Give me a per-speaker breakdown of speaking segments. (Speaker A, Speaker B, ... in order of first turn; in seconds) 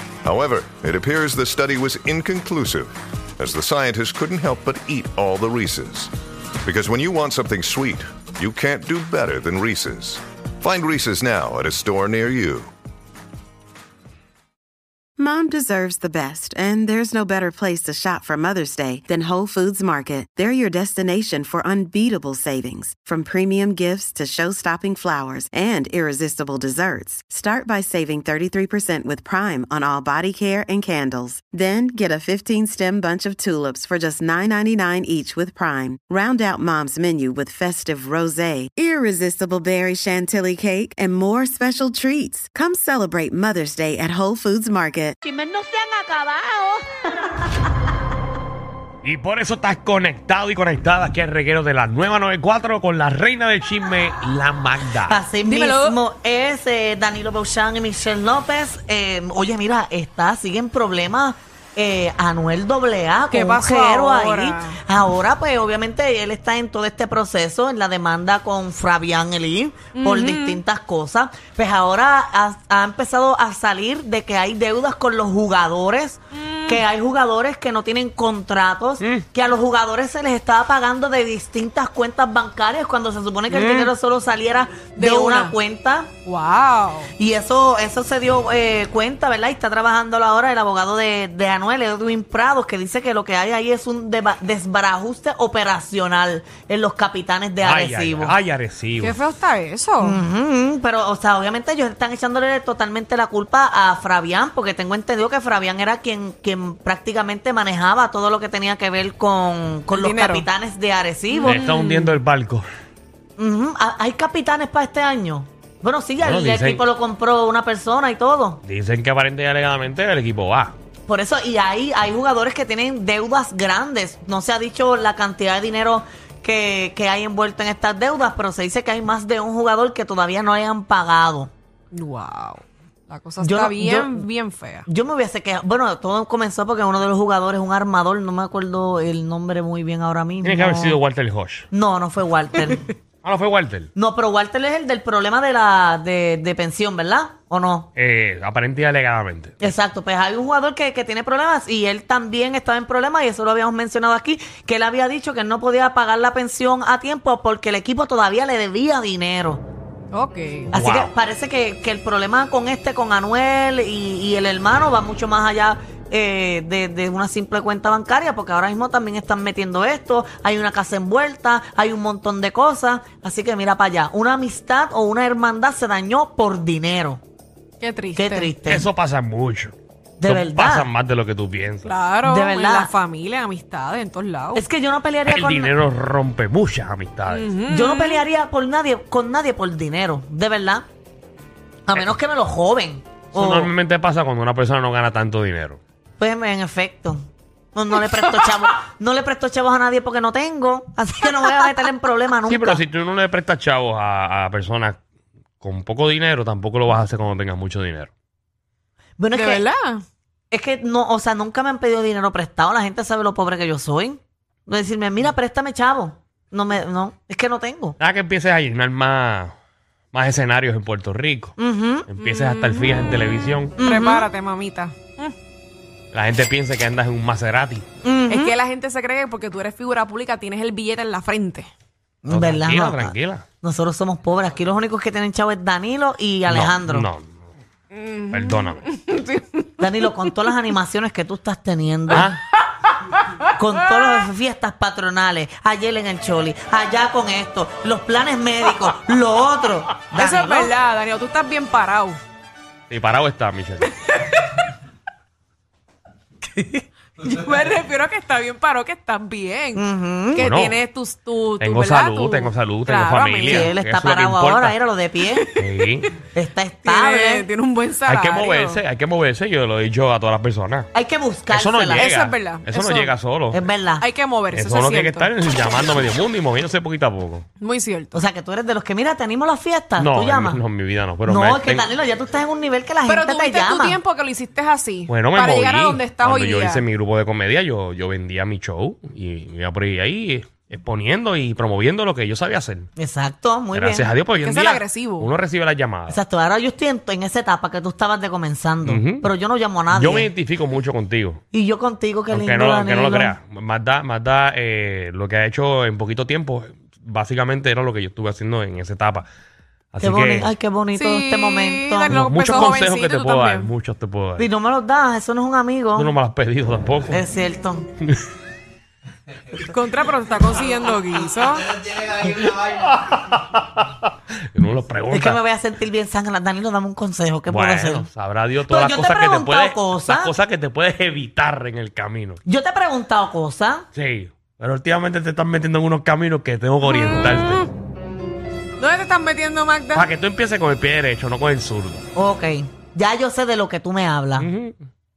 Speaker A: 0.2-6.1, 6.6-12.7
Speaker B: 15.2-45.1
Speaker C: 45.2-47.3, 55.0-86.1, 87.2-98.3, 100.0-111.6, 113.4-118.6, 121.1-131.5, 133.4-134.2, 134.8-141.0, 141.7-142.9, 143.9-147.9, 149.6-159.6, 160.7-177.2, 178.2-178.9, 180.2-180.9, 182.2-182.9, 184.5-185.7, 187.7-190.8, 191.9-193.7, 196.2-202.8, 209.2-209.6, 210.5-218.0, 221.6-222.1, 223.8-224.3, 228.0-228.5, 232.2-237.1, 239.8-242.3, 243.6-250.7, 259.7-260.5, 263.4-265.5, 266.3-267.5, 270.9-272.1, 273.5-274.0, 278.1-280.6, 281.2-284.0, 292.9-294.1, 296.1-300.3, 301.5-303.3, 310.0-312.7, 314.4-316.1, 317.1-317.9, 325.1-328.1, 328.6-330.3, 332.4-333.9, 342.1-344.5
Speaker D: 49.0-55.2, 97.6-99.2, 111.4-112.7, 116.2-116.8, 118.7-120.7, 140.4-141.7, 143.2-143.9, 148.0-149.7, 160.7-161.1, 178.7-181.9, 185.2-187.4, 193.3-195.8, 202.5-205.0, 205.6-208.1, 218.0-219.5, 220.1-221.5, 222.1-223.7, 226.1-227.8, 232.3-233.4, 236.5-237.3, 238.3-238.8, 242.1-242.4, 252.9-253.9, 260.4-260.8, 261.6-264.8, 265.6-266.1, 268.1-270.9, 271.5-273.6, 274.5-277.4, 280.0-281.9, 285.1-292.9, 293.7-296.2, 298.9-299.3, 299.9-301.4, 302.3-309.3, 309.9-310.5, 312.1-314.5, 315.9-317.2, 322.2-325.4, 327.5-332.4, 333.9-337.6, 339.9-342.0, 344.4-344.9
Speaker E: 55.4-56.0, 63.3-64.8, 69.9-70.6, 76.3-76.8, 83.5-83.9, 85.0-85.5, 86.2-87.1, 99.0-100.2, 109.9-110.5, 111.3-112.2, 131.9-134.8, 160.1-160.7, 177.8-178.5, 181.8-184.6, 187.3-188.2, 209.3-210.0, 222.2-222.9, 223.8-225.3, 228.3-231.7, 237.9-240.3, 250.1-252.2, 253.9-254.7, 257.2-263.7, 265.4-266.0, 266.8-268.8, 271.9-273.1, 274.0-275.4, 277.6-278.2, 283.1-286.8, 294.4-295.3, 310.9-313.7, 319.6-321.8, 336.8-337.7, 338.8-340.1